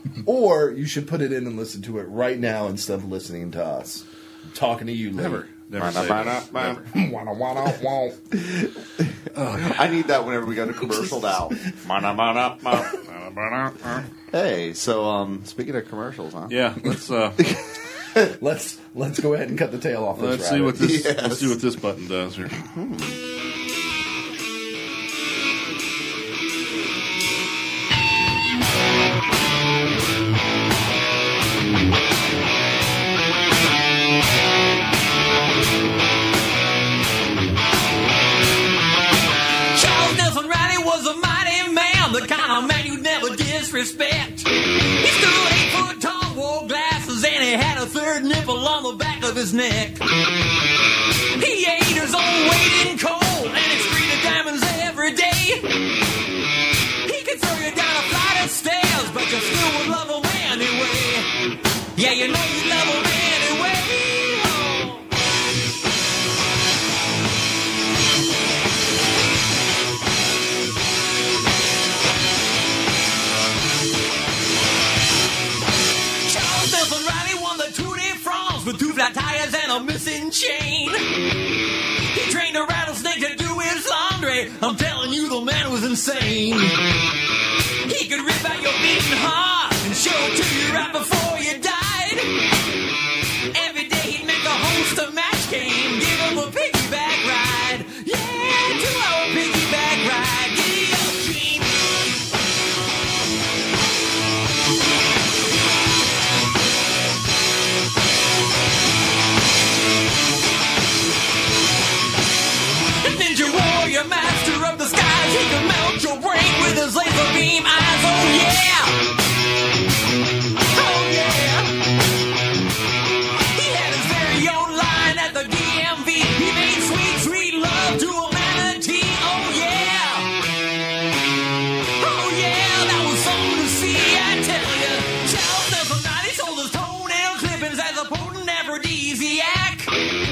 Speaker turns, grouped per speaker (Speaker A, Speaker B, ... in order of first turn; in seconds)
Speaker A: 0.2-5.5, 6.9-8.3, 18.3-20.8
Speaker B: 5.2-6.9, 9.4-9.8, 11.9-14.0, 16.5-17.5, 20.2-22.6
Speaker C: 5.8-6.8, 9.6-12.9, 14.3-16.6, 20.8-21.6, 22.6-23.2
Speaker D: 39.7-50.0, 51.4-55.7, 57.0-61.3, 62.0-65.1, 76.2-81.0, 82.1-86.8, 87.8-92.3, 93.5-101.8, 113.0-119.0, 120.7-121.8, 123.5-130.3, 132.0-139.9